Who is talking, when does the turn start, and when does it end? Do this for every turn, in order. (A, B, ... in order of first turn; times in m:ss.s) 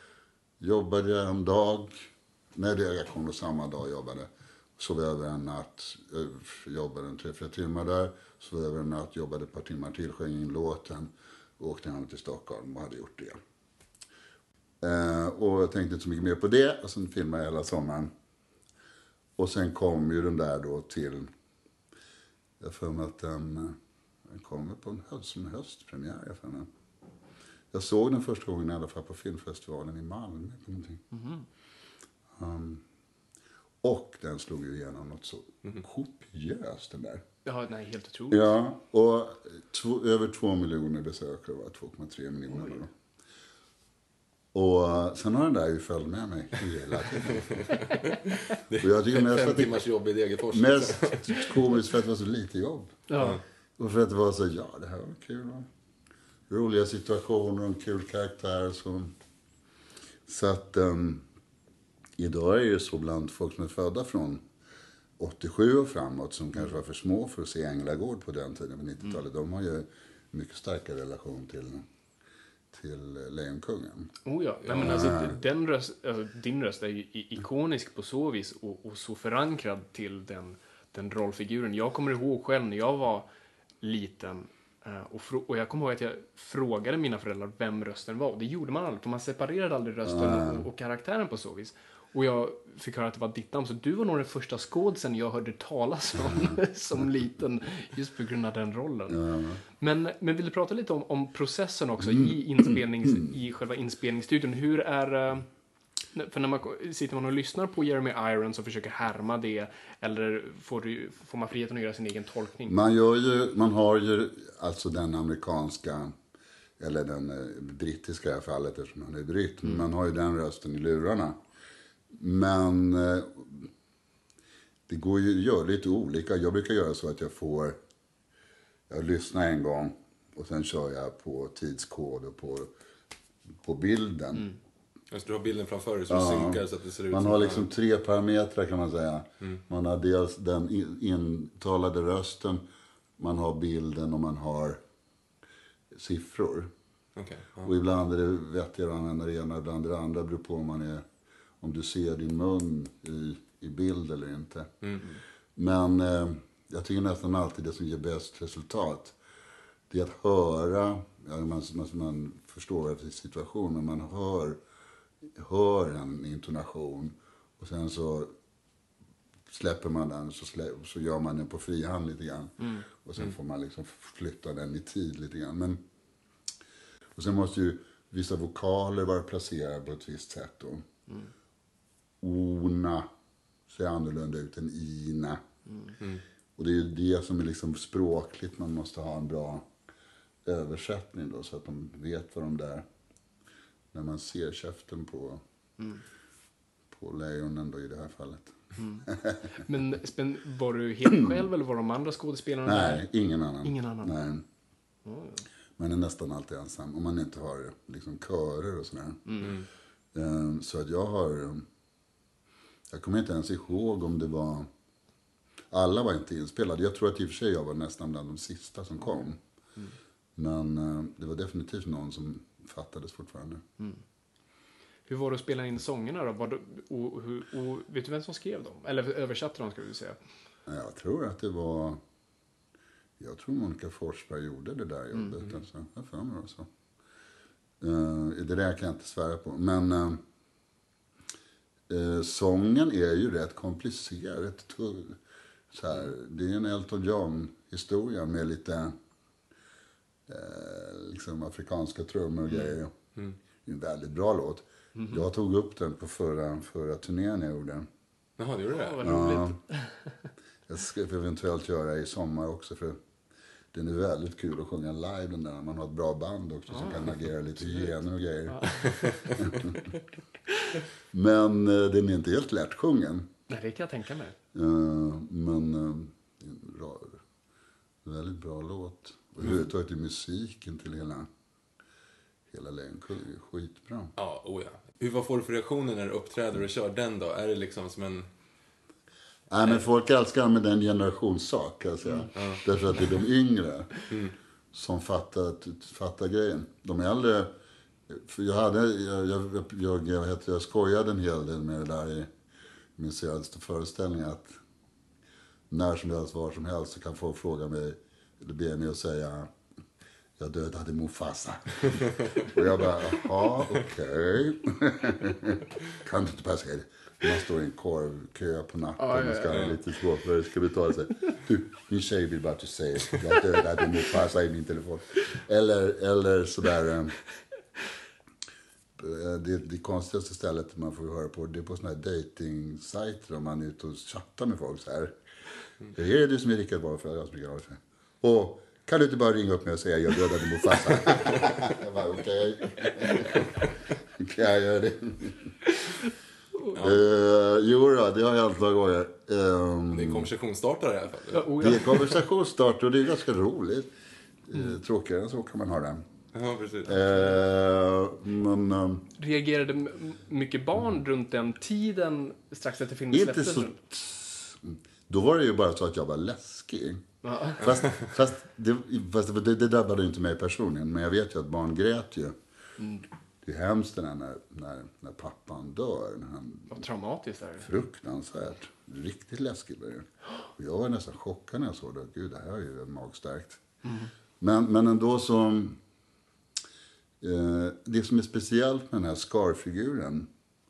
0:00.6-0:02.0 A
0:02.6-0:13.4 A
0:14.8-0:18.1 A
0:19.4-0:21.3 A
0:22.6-0:23.8 A
0:24.3-0:26.7 A
0:27.7-0:31.0 A
0:31.1-0:31.5 B
0:32.4-0:32.8 A
0:33.8-0:37.2 A
0:37.4-0:38.5 B
0:38.3-0:42.9 A
0:42.5-0:42.8 B
0:44.5-0:47.8 A
0:47.6-0:51.6 C
0:48.8-0:49.8 A
0:50.5-0:53.0 A
0:53.1-0:53.4 B
0:53.8-0:55.7 A
0:56.5-0:59.1 A
1:00.3-1:01.2 A
1:02.2-1:04.4 A
1:05.2-1:11.8 A
1:12.7-1:14.1 A
1:14.2-1:23.3 B
1:14.6-1:15.1 C
1:14.7-1:15.4 A
1:23.8-1:39.2 B
1:30.0-1:30.7 A
1:36.3-1:36.6 A
1:39.1-1:39.6 A
1:39.8-1:45.5 B
1:42.0-1:43.3 A
1:46.2-1:52.8 B
1:52.7-1:56.1 A
1:56.8-2:01.4 A
2:02.1-2:03.7 A
2:04.9-2:07.8 A
2:08.9-2:12.7 A
2:13.6-2:14.5 A
2:15.1-2:17.7 C
2:16.1-2:22.6 A
2:23.2-2:24.8 A
2:25.9-2:26.7 A
2:27.2-2:27.7 C
2:27.6-2:31.0 A
2:31.6-2:34.7 A
2:35.6-2:39.2 A
2:39.9-2:44.6 A
2:45.4-2:48.3 A
2:49.5-2:55.8 A
2:52.6-2:52.9 B
2:57.2-3:00.9 A
3:02.2-3:03.1 A
3:03.7-3:05.4 A
3:05.7-3:05.9 B
3:06.6-3:09.7 A
3:10.4-3:12.9 A
3:13.9-3:15.4 A
3:16.9-3:19.6 A
3:18.8-3:19.1 B
3:19.6-3:23.0 B
3:22.6-3:24.4 A
3:23.6-3:24.1 B
3:25.1-3:25.4 B
3:25.8-3:29.5 A
3:29.3-3:29.5 B
3:29.4-3:29.7 C
3:30.1-3:31.7 A
3:32.9-3:34.7 A
3:35.7-3:39.4 A
3:40.4-3:43.6 A
3:45.1-3:50.2 B
3:50.7-3:52.0 A
3:53.2-3:56.7 A
3:55.1-3:55.4 B
3:57.8-4:00.2 A
4:01.9-4:05.2 A
4:05.7-4:09.0 A
4:10.3-4:12.9 A
4:12.5-4:13.4 C
4:13.6-4:17.9 A
4:15.0-4:15.2 B
4:18.4-4:19.1 C
4:18.7-4:20.1 B
4:19.0-4:19.6 A
4:20.7-4:23.0 A
4:23.7-4:29.8 A
4:26.7-4:28.0 B
4:28.5-4:28.8 B
4:29.5-4:29.8 B
4:31.1-4:33.3 A
4:33.5-4:34.4 B
4:34.5-4:37.2 A
4:38.0-4:41.3 A
4:42.5-4:44.1 A
4:44.2-4:48.3 C
4:49.5-4:54.0 A
4:52.3-4:52.6 C
4:54.1-4:54.4 C
4:54.7-4:57.5 A
4:58.1-5:02.3 A
5:03.0-5:04.6 A
5:05.7-5:09.5 A
5:10.4-5:27.2 A
5:19.0-5:19.8 B
5:19.5-5:19.8 C
5:29.0-5:35.2 A
5:35.9-5:43.5 A
5:44.2-5:45.5 A
5:46.8-5:50.3 A
5:46.8-5:47.0 C
5:49.9-5:51.5 C
5:51.3-5:52.2 B
5:51.6-5:53.9 A
5:54.5-5:56.0 A
5:56.3-5:57.0 C
5:56.9-5:59.1 A
5:59.2-6:03.8 B
6:03.1-6:07.1 A
6:07.2-6:07.6 B
6:07.6-6:12.4 A
6:12.8-6:13.0 B
6:13.4-6:16.8 A
6:16.7-6:17.7 B
6:17.6-6:23.6 A
6:23.8-6:24.1 B
6:24.4-6:25.8 A
6:27.2-6:30.3 A